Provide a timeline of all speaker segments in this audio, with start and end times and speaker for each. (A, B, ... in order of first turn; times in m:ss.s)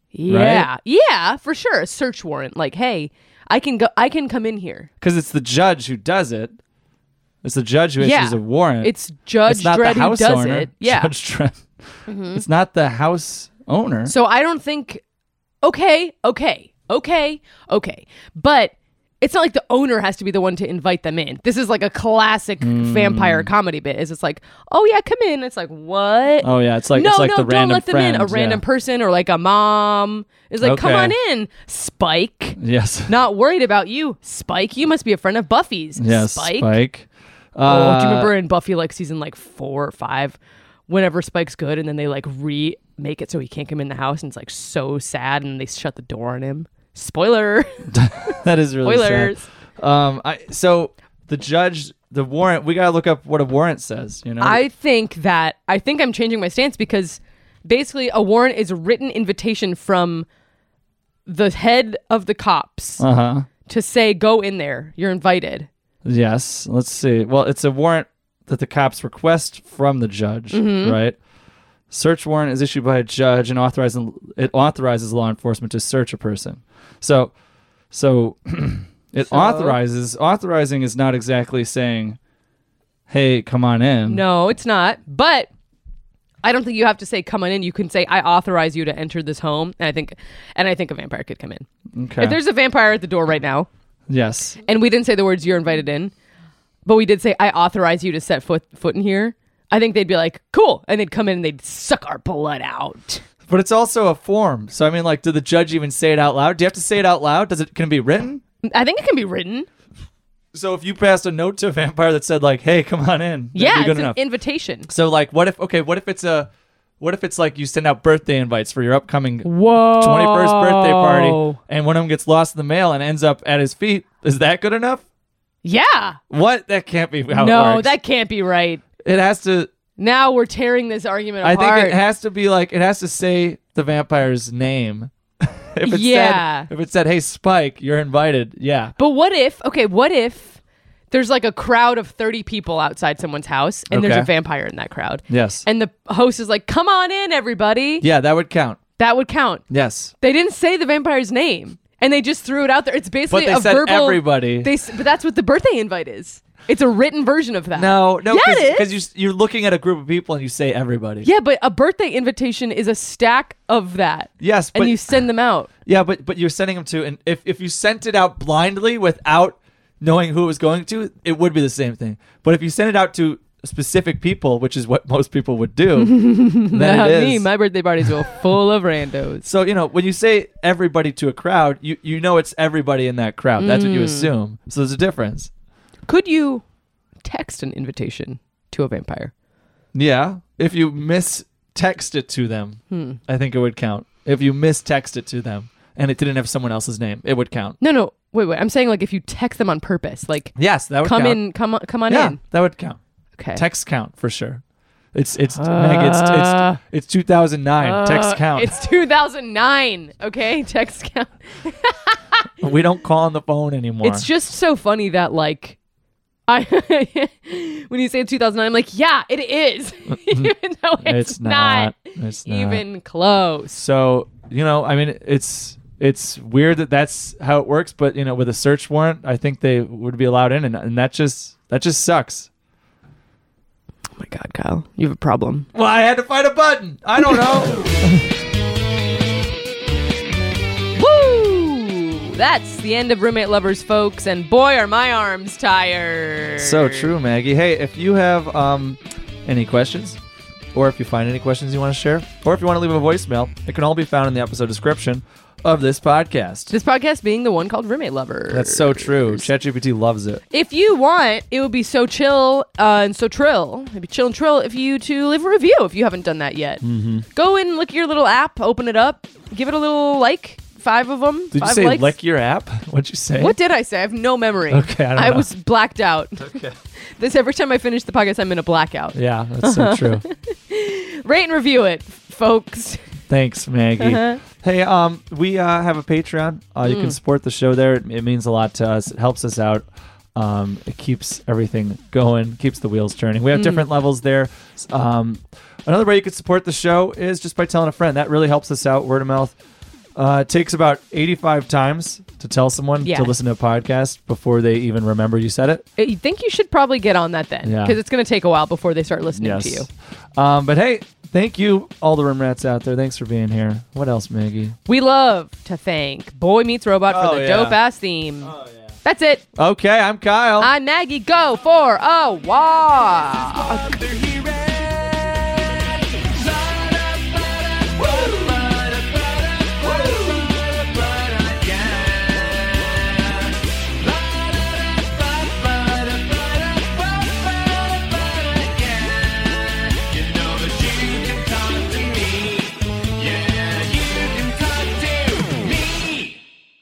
0:00.1-0:04.9 A
0:00.3-0:00.7 B
0:05.0-0:06.6 B
0:07.4-0:08.9 B
0:08.0-0:11.1 A
0:09.4-0:11.7 B
0:12.1-0:12.4 A
0:12.3-0:14.1 B
0:14.0-0:15.0 A
0:15.6-0:32.6 A
0:22.6-0:23.5 B
0:26.4-0:28.6 B
0:30.6-0:31.2 B
0:32.6-0:33.1 B
0:33.1-0:36.7 A
0:36.0-0:38.3 B
0:37.6-0:49.5 A
0:47.9-0:54.6 B
0:54.4-1:00.3 A
1:01.3-1:03.0 A
1:03.0-1:03.5 B
1:03.7-1:05.7 A
1:06.0-1:11.2 B
1:10.5-1:11.0 A
1:11.9-1:17.3 B
1:17.9-1:22.2 B
1:19.3-1:19.8 A
1:23.1-1:24.2 B
1:24.1-1:25.5 A
1:26.4-1:31.7 A
1:32.0-1:32.4 B
1:32.2-1:33.7 A
1:34.1-1:34.6 B
1:34.6-1:36.1 A
1:36.9-1:43.2 A
1:43.5-1:48.4 B
1:48.6-1:49.7 A
1:50.5-1:54.2 B
1:53.6-1:54.9 A
1:54.9-2:05.0 B
1:59.4-2:01.6 A
2:05.6-2:06.2 A
2:06.3-2:07.9 B
2:07.3-2:08.8 A
2:09.0-2:09.7 B
2:10.0-2:12.0 A
2:11.4-2:19.0 B
2:15.9-2:16.7 A
2:19.0-2:20.6 A
2:21.1-2:28.1 A
2:23.9-2:24.3 B
2:25.3-2:25.6 B
2:28.0-2:28.8 B
2:29.0-2:29.6 A
2:29.7-2:30.1 B
2:30.2-2:38.9 A
2:33.3-2:34.7 B
2:37.8-2:41.3 B
2:41.2-2:45.7 A
2:44.4-2:45.0 B
2:45.9-2:57.5 B
2:56.0-2:59.4 A
2:59.4-3:05.5 B
3:03.6-3:04.3 A
3:06.1-3:06.6 A
3:07.2-3:09.3 A
3:09.9-3:17.8 B
3:12.9-3:13.2 A
3:17.8-3:22.4 A
3:20.6-3:21.4 B
3:22.1-3:23.0 B
3:23.4-3:23.6 A
3:23.6-3:24.6 B
3:25.1-3:28.8 B
3:25.6-3:26.8 A
3:27.8-3:32.5 A
3:32.6-3:34.3 B
3:34.0-3:35.8 A
3:36.5-3:43.8 A
3:40.1-3:42.8 B
3:43.7-3:52.5 B
3:54.2-3:55.7 A
3:55.8-3:58.3 B
3:57.2-3:57.8 A
4:01.0-4:07.1 A
4:06.6-4:10.2 B
4:10.7-4:16.7 B
4:16.7-4:19.5 A
4:18.5-4:20.4 B
4:20.5-4:26.8 A
4:26.8-4:27.2 B
4:27.3-4:32.1 A
4:31.5-4:33.6 B
4:33.4-4:36.6 A
4:34.7-4:35.5 B
4:36.4-4:36.8 B
4:37.2-4:43.0 A
4:39.1-4:40.2 B
4:43.3-4:59.6 B
4:44.0-4:44.4 A
4:46.8-4:47.2 A
4:53.5-4:53.8 A
5:00.2-5:05.8 B
5:03.0-5:03.3 A
5:06.0-5:09.9 A
5:07.6-5:08.0 B
5:09.3-5:14.8 B
5:14.9-5:19.4 A
5:17.1-5:17.8 B
5:18.4-5:18.9 B
5:19.6-5:20.7 B
5:20.6-5:23.9 A
5:23.2-5:46.4 C